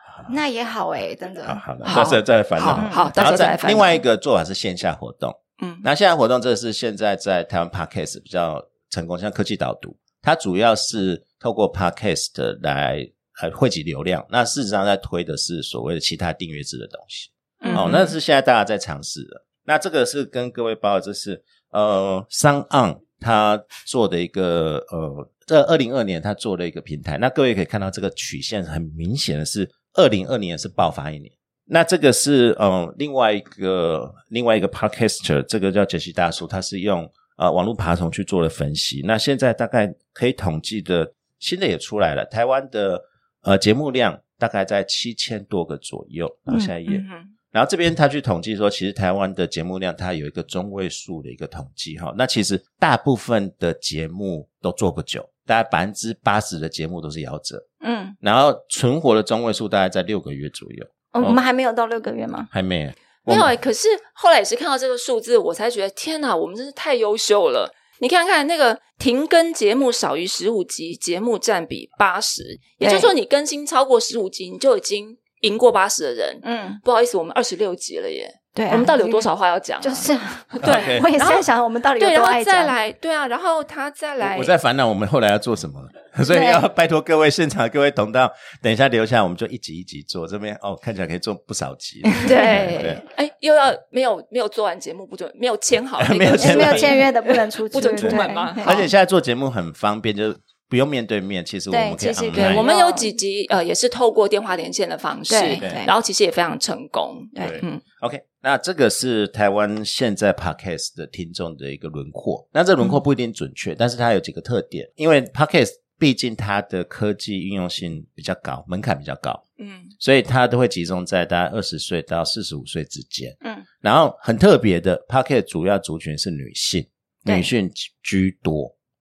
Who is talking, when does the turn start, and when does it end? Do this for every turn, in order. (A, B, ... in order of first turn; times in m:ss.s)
0:00.3-0:01.6 A
0:01.4-0:57.6 B
0:01.8-0:04.0 C
0:02.7-0:03.2 A
0:05.6-0:05.9 C
0:17.6-0:18.0 A
0:17.6-0:18.1 C
0:46.9-0:47.3 C
0:57.8-0:58.2 A
0:58.2-1:01.4 B
1:01.1-1:02.5 A
1:02.5-1:03.5 B
1:03.3-1:21.5 C
1:12.8-1:13.1 A
1:16.4-1:16.8 A
1:18.6-1:19.3 A
1:19.8-1:22.8 A
1:20.6-1:21.1 B
1:22.0-1:24.5 C
1:24.2-1:33.0 B
1:26.3-1:26.6 A
1:32.2-1:38.9 C
1:36.0-1:37.1 B
1:36.4-1:38.9 A
1:37.9-1:42.6 B
1:41.7-1:43.1 A
1:42.3-1:47.8 C
1:45.3-1:45.9 A
1:45.6-1:45.8 B
1:47.4-1:47.6 A
1:47.4-1:59.4 B
1:59.6-1:59.9 C
2:00.0-2:08.7 B